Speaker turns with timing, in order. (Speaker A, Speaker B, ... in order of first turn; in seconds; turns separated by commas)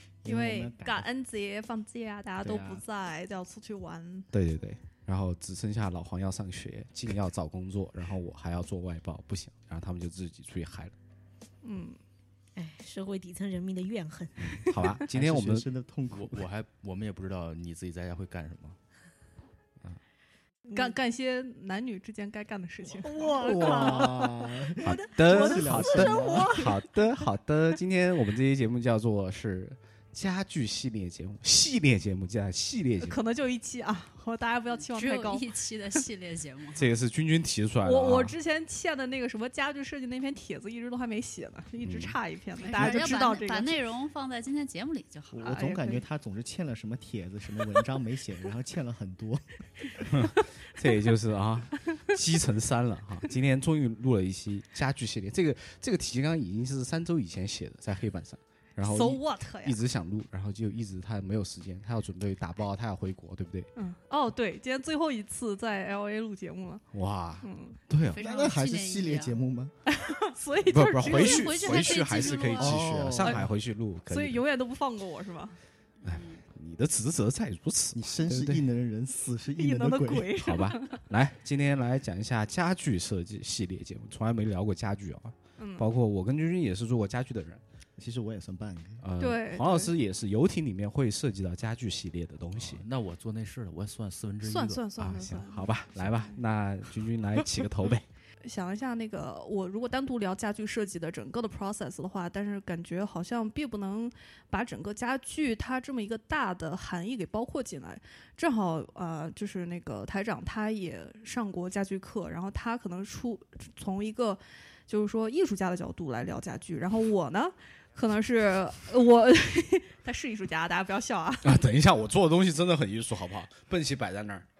Speaker A: 0.2-1.1, Speaker B: 0.3-4.3, Speaker A: 2.4-2.8, Speaker C: 4.3-10.9, Speaker B: 11.6-12.0, Speaker D: 12.6-14.5, Speaker B: 14.6-14.9, Speaker C: 14.7-15.7, Speaker A: 15.1-16.5, Speaker E: 16.1-18.8, Speaker D: 20.7-21.0, Speaker B: 20.7-23.8, Speaker D: 22.9-26.8, Speaker A: 23.2-26.7, Speaker C: 24.8-33.2, Speaker B: 33.0-35.5, Speaker F: 34.9-36.9, Speaker C: 36.8-38.4, Speaker B: 37.8-43.7, Speaker C: 41.8-42.2, Speaker F: 42.6-45.6, Speaker A: 45.3-50.1, Speaker B: 45.4-46.0, Speaker C: 50.1-63.7, Speaker B: 58.8-59.8, Speaker B: 63.8-66.9, Speaker C: 66.9-68.2, Speaker B: 67.4-67.8, Speaker F: 68.1-69.4, Speaker A: 68.2-69.8, Speaker B: 69.9-72.6, Speaker C: 70.7-74.4, Speaker F: 71.0-72.8, Speaker A: 72.6-73.5, Speaker B: 74.1-75.6, Speaker F: 76.0-76.4, Speaker C: 76.0-78.6, Speaker A: 77.9-80.4, Speaker B: 79.6-81.0, Speaker C: 80.4-87.6, Speaker B: 85.6-85.9, Speaker A: 88.0-89.0, Speaker C: 89.0-92.8, Speaker B: 89.2-89.9, Speaker E: 92.6-94.9, Speaker B: 94.4-96.4, Speaker C: 95.0-98.1, Speaker B: 98.5-121.6, Speaker C: 121.4-124.5